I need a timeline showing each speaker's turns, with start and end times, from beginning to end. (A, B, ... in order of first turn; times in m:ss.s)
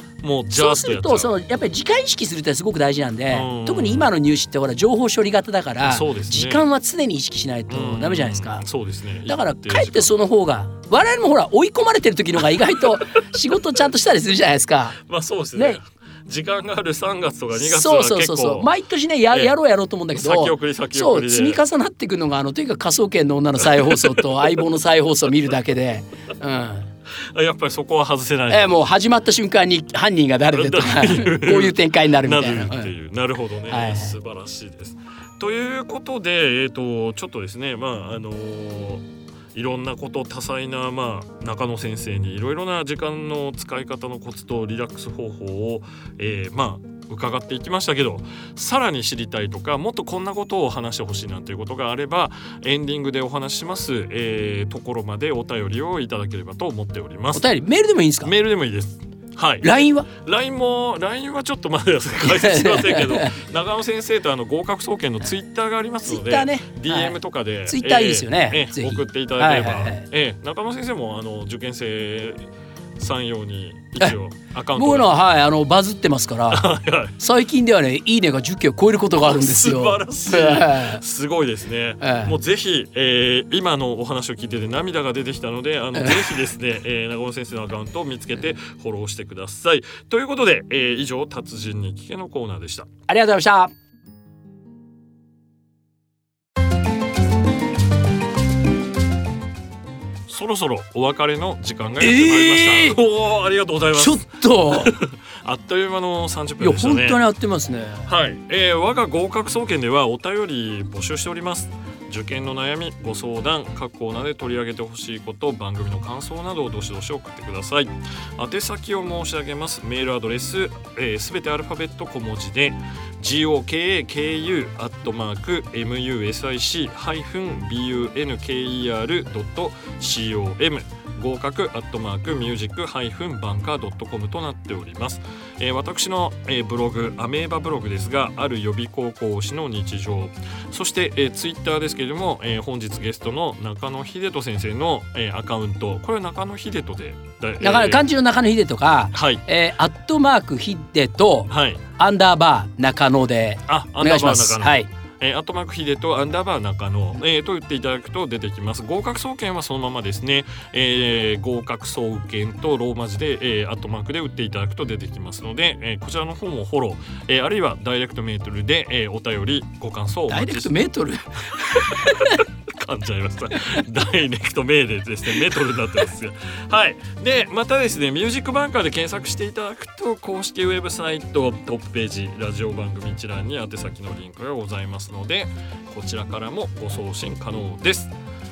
0:00.2-0:01.3 A
0:00.5-0:08.6 B
0:03.3-0:04.1 A
0:05.8-0:06.6 A
0:07.7-0:10.1 A
0:09.3-0:15.0 B
0:12.8-0:13.3 A
0:15.0-0:18.7 A
0:15.6-0:15.8 B
0:17.6-0:26.9 B
0:20.2-0:21.6 A
0:23.6-0:24.5 A
0:27.3-0:28.8 A
0:28.5-0:32.9 B
0:30.5-0:57.5 A
0:33.7-0:34.2 B
0:57.3-0:58.3 B
0:58.2-1:12.4 A
0:59.6-1:00.1 B
1:02.2-1:03.3 B
1:06.1-1:10.0 B
1:13.0-1:15.1 A
1:14.8-1:21.0 B
1:16.5-1:17.2 A
1:19.2-1:32.9 A
1:22.0-1:22.4 B
1:26.0-1:26.3 B
1:33.1-1:33.7 B
1:40.3-1:47.2 A
1:42.0-1:43.0 B
1:44.0-1:44.9 B
1:46.6-1:48.1 B
1:48.1-2:28.1 A
2:27.6-2:34.9 B
2:29.1-2:29.4 A
2:31.5-2:31.8 A
2:33.7-2:50.8 A
2:50.3-2:52.4 B
2:51.7-3:08.1 A